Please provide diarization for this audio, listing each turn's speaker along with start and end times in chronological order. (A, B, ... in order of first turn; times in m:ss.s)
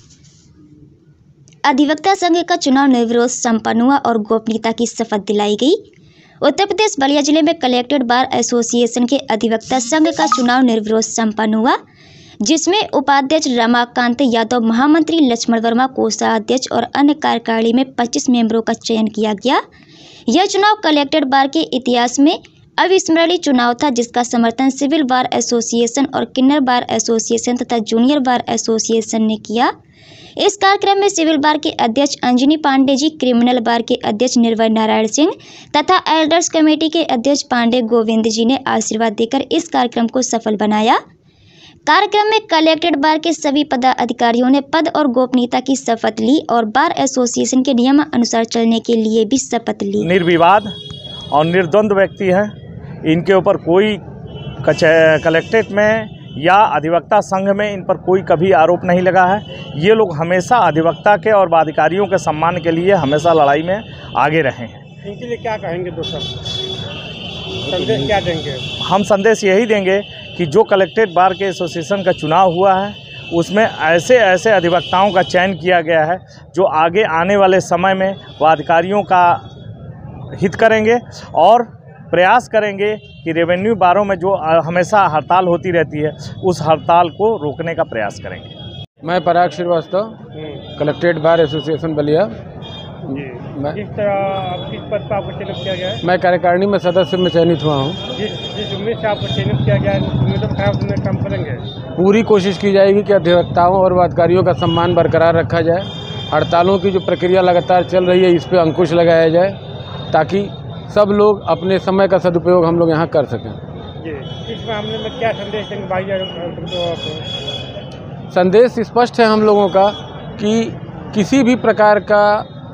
0:01.6-0:05.8 A
0:06.4-0:11.8 A
0:12.4-0:19.6 A
0:20.3-0:29.7 A
0:30.4-0:41.0 A
0:41.9-0:50.1 A
0:50.0-0:50.7 B
0:51.3-0:52.5 B
0:53.0-0:54.0 B
0:54.6-1:04.8 B
1:05.0-1:06.4 C
1:07.7-1:08.6 C
1:08.8-1:19.4 B
1:20.4-1:28.5 B
1:29.0-1:30.2 D
1:30.3-1:30.6 C
1:30.8-1:32.3 D
1:33.1-1:36.0 C
1:33.1-1:33.8 D
1:36.0-1:38.0 D
1:38.1-1:41.6 C
1:42.0-1:49.6 D
1:50.1-1:53.6 D
1:54.0-1:57.3 C
1:58.3-2:02.5 D